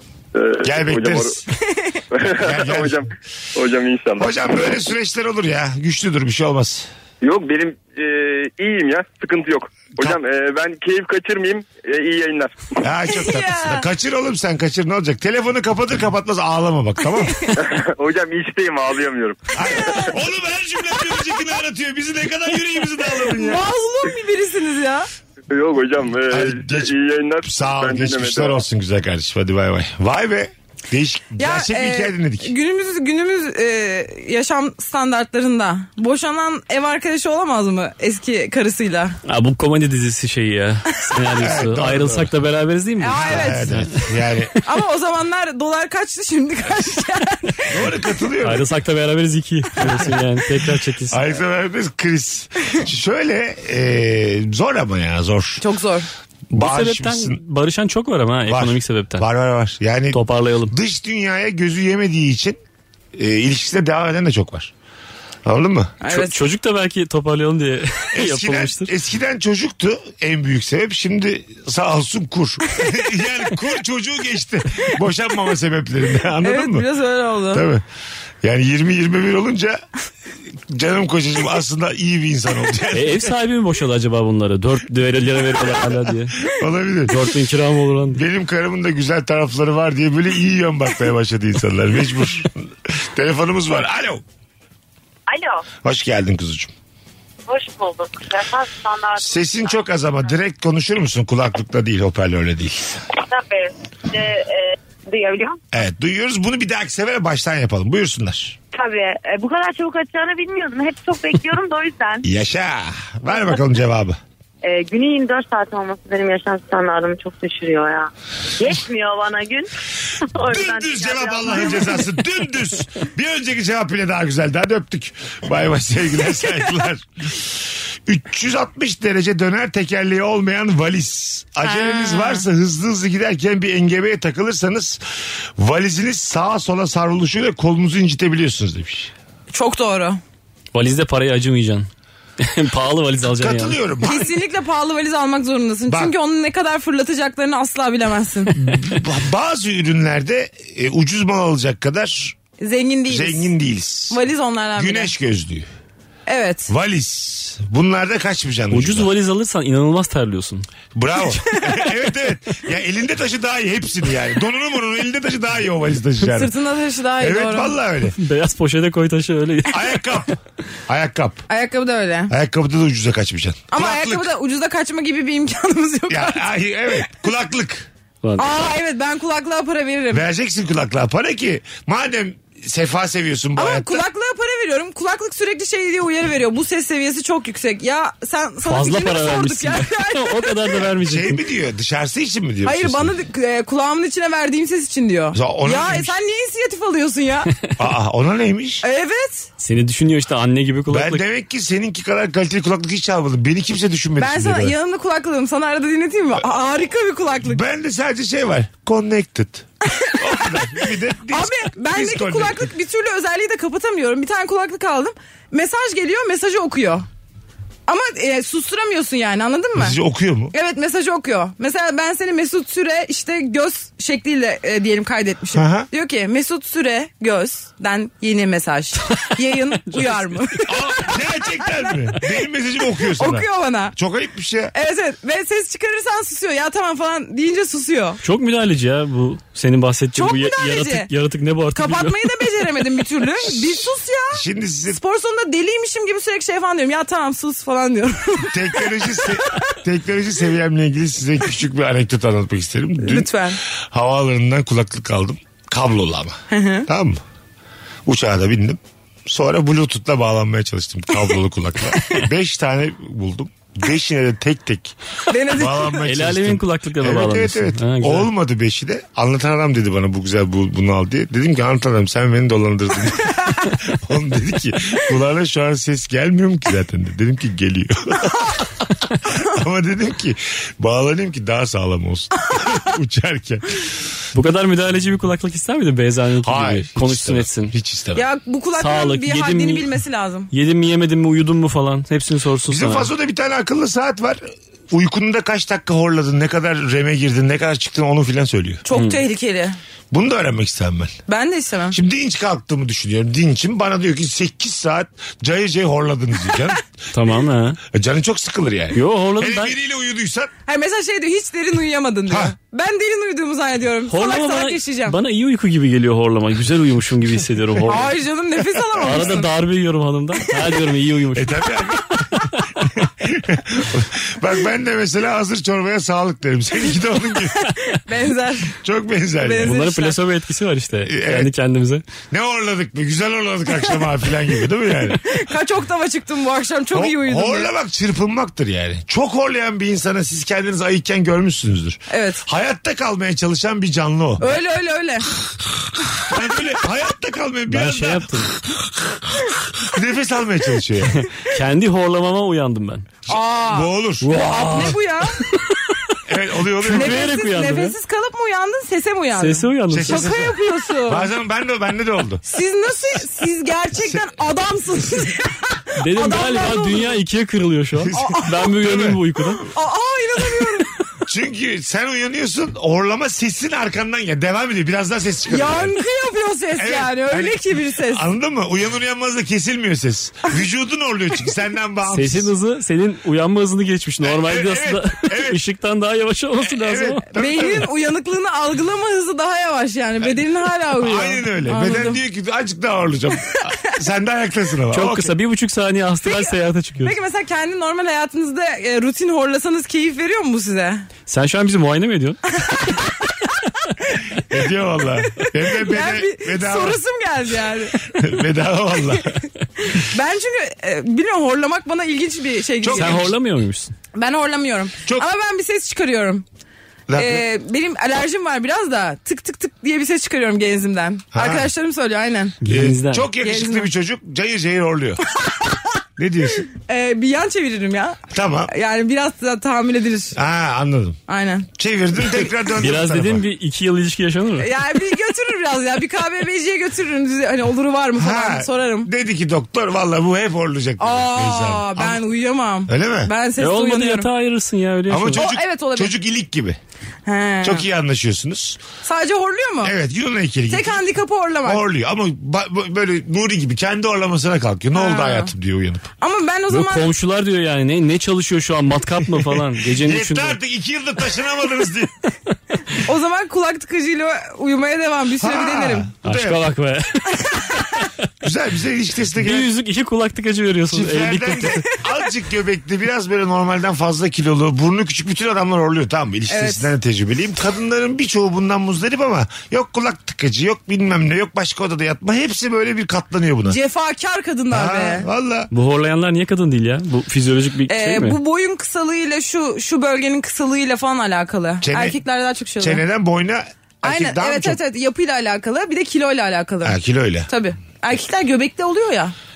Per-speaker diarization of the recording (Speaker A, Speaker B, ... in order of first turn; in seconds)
Speaker A: 0.3-1.4, 2.1-4.4, 7.2-12.5, 17.6-19.5, 25.5-28.6
Speaker B: 0.6-1.4, 2.2-3.1, 4.2-6.9, 12.8-17.5, 19.6-23.7, 26.3-32.5, 41.4-42.3, 43.1-44.5, 47.7-48.7, 51.1-55.6, 56.5-57.4, 58.5-62.6, 63.1-64.7, 65.5-66.0, 68.1-76.9, 77.5-77.8, 78.4-79.8, 80.7-83.3, 85.8-87.3, 88.1-94.2, 95.8-96.7, 99.2-103.0, 105.7-108.6, 112.2-114.2, 120.4-127.5, 128.1-135.0, 135.6-139.1, 143.3-144.3, 145.9-146.1, 148.6-152.4, 153.1-154.2, 154.8-155.7, 156.7-159.1, 160.9-166.5, 167.2-168.2, 169.7-171.4, 172.3-174.3, 176.1-177.9, 180.1-184.1, 191.0-193.1, 195.3-196.2, 197.8-198.8, 200.9-204.8, 207.4-212.7, 219.8-220.5, 225.5-225.9, 230.7-234.7, 244.3-245.0, 248.4-257.2, 258.1-283.9, 286.4-288.2, 292.7-298.8, 300.1-301.2, 301.9-306.9, 307.8-310.5, 312.3-312.6, 319.0-319.4, 321.4-327.7, 328.7-329.8, 331.1-331.5, 332.3-335.2, 336.9-344.5, 346.2-351.2, 353.3-354.3, 356.3-357.3, 359.9-362.4, 368.0-369.3, 371.3-376.0, 376.8-382.5, 384.2-385.6, 386.6-387.9, 390.9-395.4, 404.4-407.0, 408.1-409.4, 412.8-413.3, 417.1-417.4, 421.3-421.7, 422.6-425.2, 426.2-426.7, 428.3-428.7, 430.3-431.2, 431.8-433.4, 438.1-442.2, 442.9-443.3, 445.1-446.8, 447.6-448.8, 449.8-451.0, 451.6-456.1, 459.4-462.3, 465.4-466.6, 468.4-469.7, 470.9-483.8, 484.7-485.7, 491.8-492.2, 492.8-494.8, 496.8-497.5
Speaker C: 1.7-2.0, 13.1-13.9, 19.6-20.1, 23.1-25.1, 31.4-39.2, 43.0-43.8, 44.6-47.7, 55.6-56.1, 66.0-66.4, 76.4-77.6, 131.6-132.5, 139.5-140.2, 144.0-148.6, 152.6-153.5, 154.1-155.1, 156.3-156.7, 166.2-167.8, 171.5-172.3, 173.7-176.4, 178.4-180.2, 183.6-190.7, 192.6-197.5, 198.8-199.5, 204.2-207.6, 209.9-210.3, 211.3-217.1, 217.9-220.0, 220.5-231.9, 233.2-233.9, 234.7-238.2, 240.2-241.1, 241.8-249.6, 253.0-253.6, 256.5-256.9, 265.3-266.0, 288.2-290.5, 298.9-299.8, 301.3-302.0, 310.7-315.2, 317.9-319.5, 327.6-328.8, 329.4-330.2, 335.1-337.7, 342.1-342.4, 344.4-345.3, 353.3-355.4, 356.9-361.3, 362.4-367.2, 368.1-368.6, 369.7-370.9, 375.5-378.2, 387.3-392.2, 393.5-393.9, 396.2-401.1, 402.6-403.0, 405.4-408.2, 409.9-413.3, 414.1-416.4, 417.2-422.6, 423.4-423.9, 426.7-430.4, 431.3-431.7, 434.6-439.1, 441.0-444.3, 445.4-446.1, 447.3-447.9, 449.0-449.9, 450.7-451.8, 454.9-455.5, 456.2-457.1, 463.0-466.1, 476.5-476.9, 483.7-485.3, 487.9-493.0, 494.0-499.3
Speaker D: 39.3-44.1, 48.4-51.3, 56.5-59.3, 60.1-60.7, 66.1-68.9, 82.9-86.4, 87.1-88.2, 140.7-141.9, 142.4-143.8, 158.7-160.7, 168.2-170.0, 178.2-178.5, 188.7-191.4, 199.6-201.2, 229.9-230.4, 238.2-242.8, 266.0-268.3, 284.3-287.7, 288.8-290.0, 290.5-293.1, 298.9-299.2, 307.1-307.8, 308.9-309.8, 314.1-318.1, 319.0-321.6, 329.6-332.0, 347.7-348.5, 351.1-353.1, 354.2-356.0, 356.9-358.0, 359.4-360.4, 366.0-369.7, 382.1-387.3, 394.9-397.1, 401.3-402.4, 412.9-413.9, 422.6-423.3, 432.8-434.7, 443.6-445.4, 456.7-460.6, 466.2-467.8, 469.4-471.9, 485.7-488.4
Speaker E: 95.3-95.7, 97.5-99.8, 103.1-105.6, 108.7-112.3, 114.6-119.7, 120.2-122.1